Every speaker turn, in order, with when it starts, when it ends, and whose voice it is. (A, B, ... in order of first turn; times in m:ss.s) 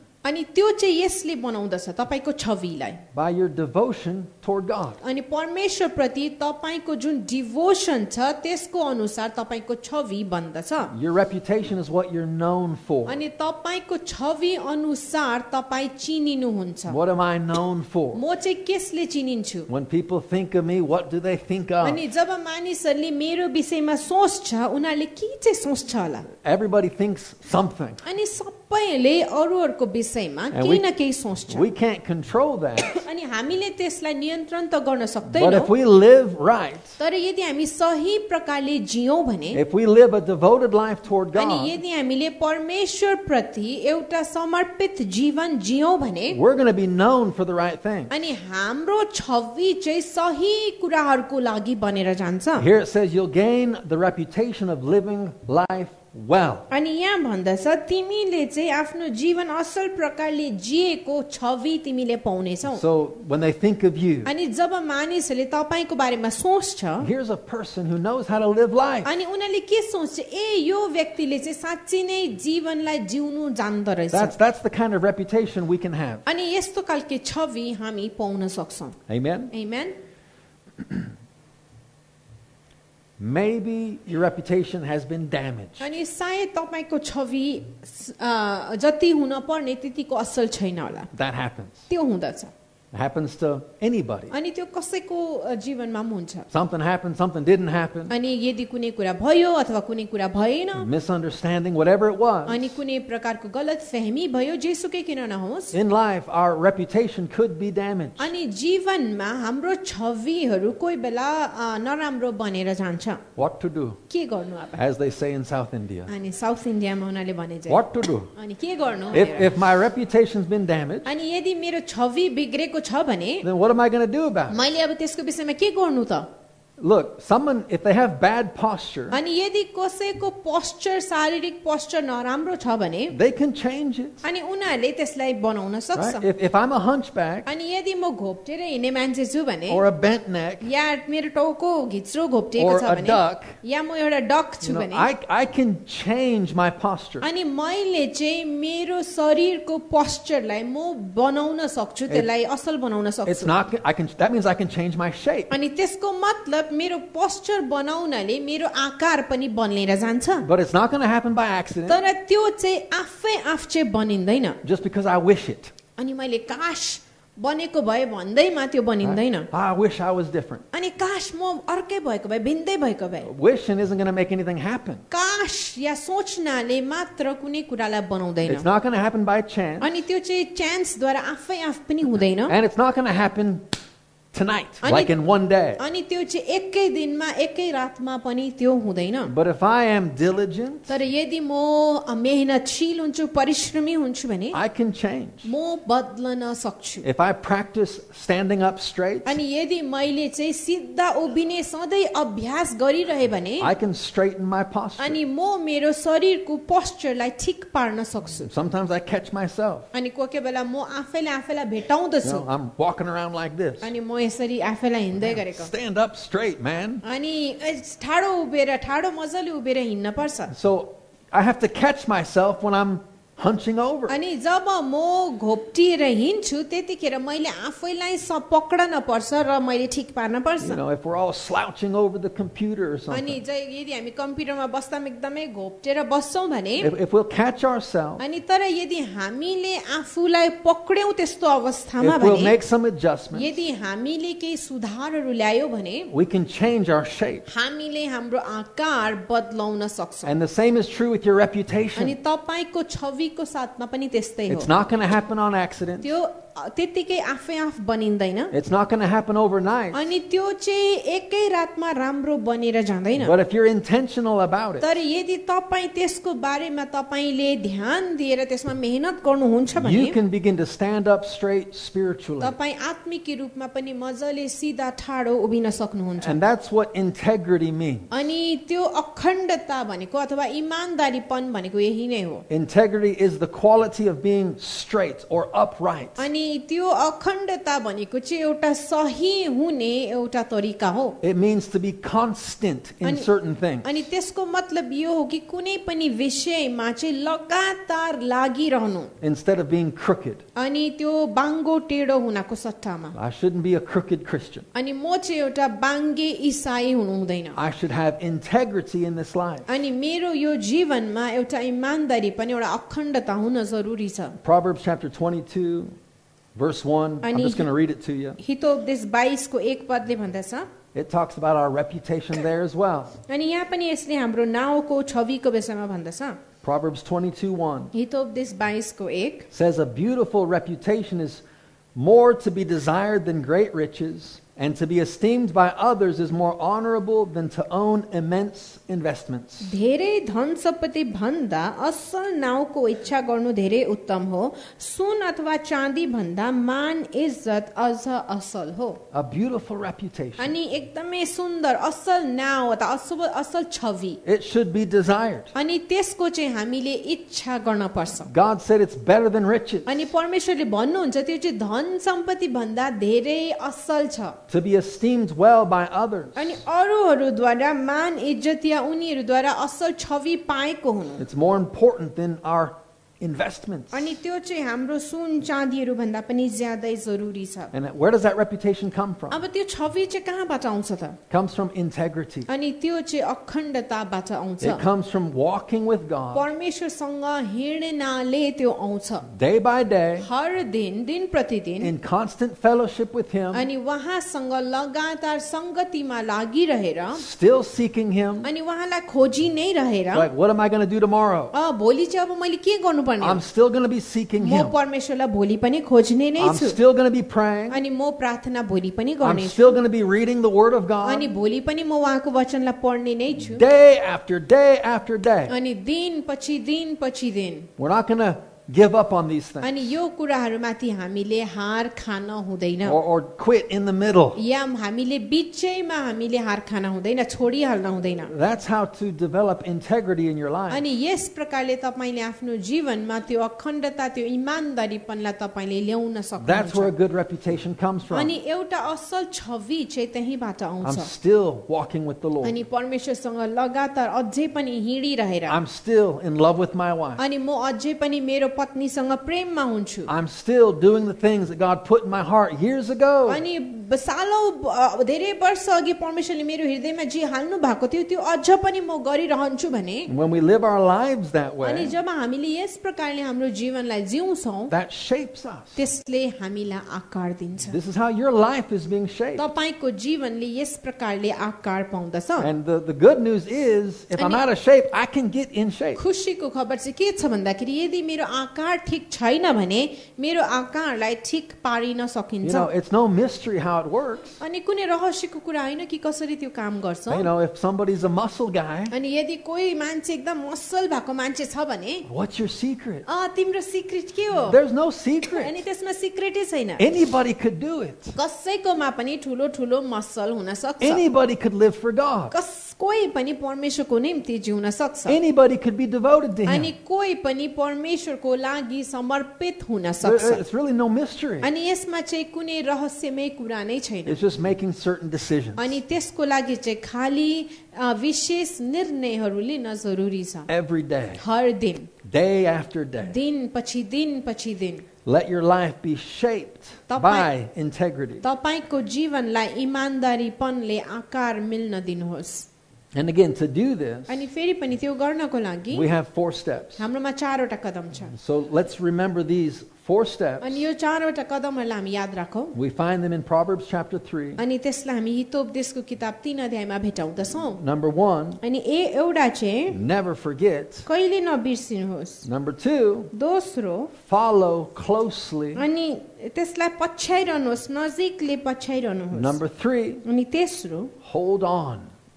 0:00.2-0:03.0 A
0:03.1-0:05.0 B
0:05.0-0:10.9 A
0:10.9-0:13.2 B
0:13.0-0:17.0 A
0:16.9-0:18.2 B
0:18.1-0:19.7 A
0:19.7-0:22.0 B
0:21.8-0:26.3 A
0:26.4-0:28.0 B
0:28.0-0:31.6 A
0:30.5-0:30.8 B
0:31.5-0:33.0 B
0:32.9-0:35.7 A
0:35.3-0:37.0 B
0:37.0-0:39.6 A
0:39.5-0:41.7 B
0:41.3-0:46.4 A
0:46.3-0:48.1 B
0:48.1-0:52.7 A
0:52.6-0:56.7 B
0:56.7-1:02.8 A
1:02.7-1:04.3 B
1:04.2-1:07.1 A
1:07.0-1:09.1 B
1:09.0-1:14.3 A
1:14.1-1:16.2 B
1:16.2-1:19.0 A
1:19.1-1:19.5 B
1:19.5-1:20.0 A
1:20.8-1:21.1 B
1:23.2-1:25.9 B
1:25.8-1:31.1 A
1:31.1-1:31.9 B
1:31.9-1:32.5 A
1:32.9-1:34.3 B
1:34.3-1:36.5 A
1:36.5-1:38.1 B
1:38.1-1:40.9 A
1:40.8-1:42.7 B
1:42.5-1:45.7 A
1:45.7-1:48.3 B
1:48.2-1:53.2 A
1:53.4-1:54.0 B
1:54.1-1:54.8 A
1:54.8-1:56.1 B
1:56.1-1:57.8 A
1:57.7-1:58.3 B
1:58.3-1:59.5 A
1:59.1-2:01.1 B
2:01.0-2:03.5 A
2:03.4-2:04.6 B
2:04.5-2:06.3 A
2:06.8-2:09.2 B
2:09.1-2:13.2 A
2:13.1-2:14.2 B
2:14.2-2:16.2 A
2:15.9-2:17.5 B
2:17.4-2:19.8 A
2:19.7-2:20.7 B
2:20.6-2:25.1 A
2:22.6-2:23.6 B
2:24.6-2:27.3 B
2:27.2-2:33.5 A
2:33.2-2:35.5 B
2:35.5-2:40.5 A
2:40.4-2:42.0 B
2:41.9-2:44.6 A
2:44.6-2:45.7 B
2:46.0-2:49.5 A
2:49.0-2:50.6 B
2:50.7-2:53.3 A
2:53.2-2:55.0 B
2:55.1-2:58.6 A
2:58.4-2:59.9 B
2:59.8-3:02.5 A
3:02.5-3:03.6 B
3:04.3-3:05.8 B
3:04.8-3:05.1 A
3:05.8-3:09.3 A
3:09.3-3:10.9 B
3:10.9-3:14.6 A
3:14.5-3:15.5 B
3:15.4-3:17.0 A
3:17.0-3:19.4 B
3:19.2-3:23.7 A
3:23.6-3:25.2 B
3:25.0-3:28.5 A
3:28.4-3:29.9 B
3:29.9-3:32.4 A
3:32.2-3:33.9 B
3:33.8-3:35.7 A
3:35.2-3:37.0 B
3:37.0-3:40.5 A
3:40.5-3:44.2 B
3:44.1-3:50.8 A
3:50.6-3:53.4 B
3:53.1-3:56.9 A
3:56.8-3:58.2 B
3:58.2-4:02.5 A
4:02.0-4:03.5 B
4:03.3-4:06.1 A
4:06.1-4:07.5 B
4:07.5-4:10.3 A
4:10.2-4:12.1 B
4:12.0-4:14.7 A
4:14.5-4:16.1 B
4:16.0-4:18.5 A
4:18.5-4:20.0 B
4:19.9-4:23.3 A
4:23.2-4:24.9 B
4:24.8-4:30.2 A
4:29.8-4:32.5 B
4:32.4-4:36.4 A
4:36.2-4:38.1 B
4:38.1-4:42.4 A
4:42.5-4:46.2 B
4:46.2-4:51.2 A
4:51.2-4:53.9 B
4:53.0-4:53.3 A
4:53.8-4:59.1 A
4:59.2-5:00.4 B
5:00.6-5:03.1 A
5:03.1-5:04.6 B
5:04.7-5:07.6 A
5:07.5-5:09.7 B
5:09.7-5:14.3 A
5:14.4-5:15.9 B
5:16.6-5:18.4 B
5:17.2-5:17.6 A
5:18.4-5:20.7 A
5:20.9-5:23.1 B
5:23.3-5:26.4 A
5:26.6-5:27.9 B
5:27.9-5:29.5 A
5:29.5-5:31.4 B
5:31.9-5:39.7 B
5:39.6-5:49.0 A
5:49.1-5:50.5 B
5:50.4-5:54.2 A
5:54.2-5:55.5 B
5:55.5-5:58.3 A
5:58.2-6:00.0 B
5:59.8-6:04.4 A
6:04.5-6:06.6 B
6:06.4-6:11.2 A
6:11.2-6:14.1 B
6:13.9-6:17.7 A
6:17.7-6:19.4 B
6:19.3-6:21.2 A
6:21.3-6:22.5 B
6:22.5-6:24.8 A
6:24.6-6:26.5 B
6:26.3-6:29.2 A
6:29.3-6:30.3 B
6:30.2-6:31.9 A
6:31.8-6:33.6 B
6:33.5-6:37.2 A
6:37.1-6:38.5 B
6:38.4-6:40.3 A
6:40.1-6:41.5 B
6:41.5-6:43.4 A
6:43.2-6:44.7 B
6:44.4-6:46.8 A
6:46.4-6:47.8 B
6:47.7-6:49.8 A
6:49.2-6:51.3 B
6:51.0-6:53.6 A
6:53.4-6:55.5 B
6:55.5-6:57.7 A
6:57.8-6:59.9 B
6:59.6-7:03.0 A
7:02.8-7:04.4 B
7:04.4-7:08.3 A
7:08.3-7:10.8 B
7:10.7-7:16.9 A
7:16.4-7:18.3 B
7:18.1-7:21.1 A
7:20.8-7:22.6 B
7:22.4-7:25.6 A
7:25.5-7:27.2 B
7:27.2-7:30.1 A
7:30.1-7:33.4 B
7:33.3-7:40.1 A
7:40.1-7:41.9 B
7:41.6-7:44.7 A
7:44.7-7:45.8 B
7:45.8-7:47.8 A
7:47.6-7:49.4 B
7:49.4-7:52.5 A
7:52.4-7:56.0 B
7:54.2-7:54.4 A
7:56.0-8:02.7 A
8:02.4-8:04.4 B
8:04.4-8:07.3 A
8:07.1-8:08.9 B
8:08.9-8:12.0 A
8:12.1-8:13.0 B
8:13.0-8:14.6 A
8:14.5-8:15.5 B
8:15.3-8:16.8 A
8:16.8-8:18.2 B
8:18.1-8:21.0 A
8:20.8-8:22.3 B
8:22.3-8:25.2 A
8:25.0-8:26.7 B
8:26.4-8:30.4 A
8:30.0-8:31.5 B
8:31.4-8:34.2 A
8:34.0-8:35.8 B
8:35.6-8:40.5 A
8:40.5-8:41.2 B
8:41.2-8:41.9 A
8:42.0-8:43.2 B
8:43.0-8:44.9 A
8:45.0-8:48.2 B
8:46.9-8:47.3 A
8:48.2-8:52.5 A
8:52.9-8:54.2 B
8:54.1-8:55.9 A
8:55.7-8:56.8 B
8:56.8-8:58.1 A
8:58.1-9:00.6 B
9:00.4-9:02.5 A
9:02.5-9:04.4 B
9:04.4-9:07.6 A
9:07.6-9:08.4 B
9:08.4-9:09.8 A
9:09.7-9:10.9 B
9:10.8-9:12.2 A
9:12.2-9:13.1 B
9:13.1-9:13.9 A
9:13.9-9:15.6 B
9:15.5-9:19.4 A
9:19.1-9:20.0 B
9:20.0-9:20.9 A
9:21.0-9:21.9 B